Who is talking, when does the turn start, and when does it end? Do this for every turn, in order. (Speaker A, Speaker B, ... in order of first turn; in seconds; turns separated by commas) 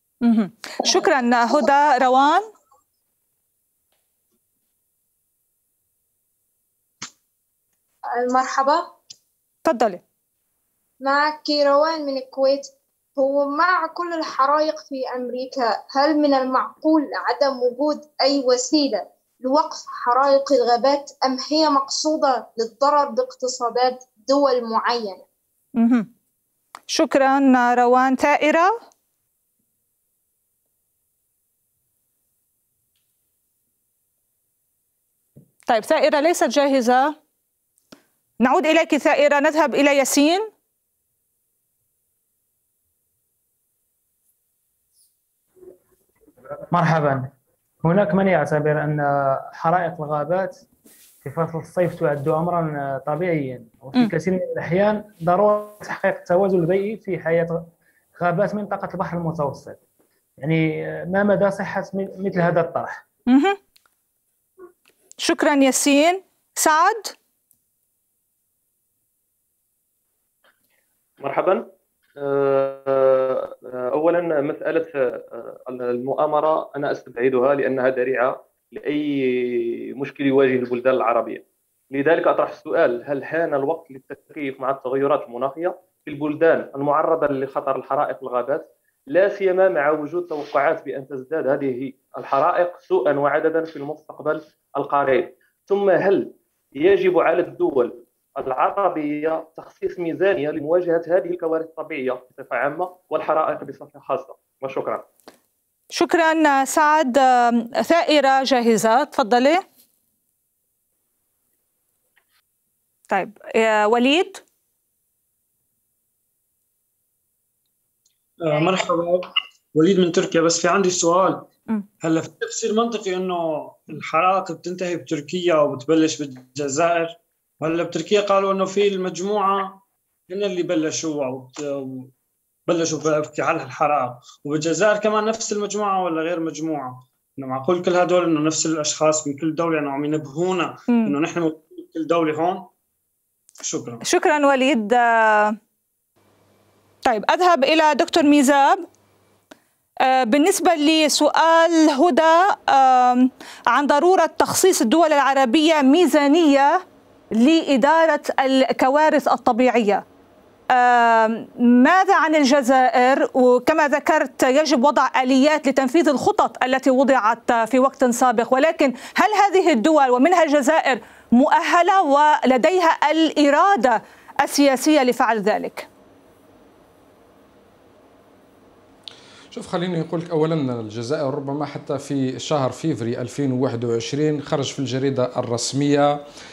Speaker A: 0.2-2.5, Speaker B: 8.2-8.9, Speaker A: 9.7-10.0, Speaker B: 11.0-25.2, Speaker A: 25.8-26.1, Speaker A: 26.9-28.8, Speaker A: 35.7-37.1, Speaker A: 38.4-40.5, Speaker C: 46.7-50.6, Speaker C: 51.2-57.6, Speaker C: 58.1-59.8, Speaker C: 60.4-63.0, Speaker A: 63.3-63.6, Speaker A: 65.2-67.1, Speaker D: 71.2-71.7, Speaker D: 72.2-105.0, Speaker A: 105.9-109.6, Speaker A: 113.1-114.4, Speaker E: 118.4-121.5, Speaker E: 122.0-132.1, Speaker E: 132.7-142.7, Speaker A: 140.9-141.1, Speaker E: 143.6-144.0, Speaker A: 144.0-145.6, Speaker A: 147.0-148.8, Speaker A: 150.0-156.8, Speaker A: 157.3-160.0, Speaker A: 160.7-175.9, Speaker F: 179.5-186.2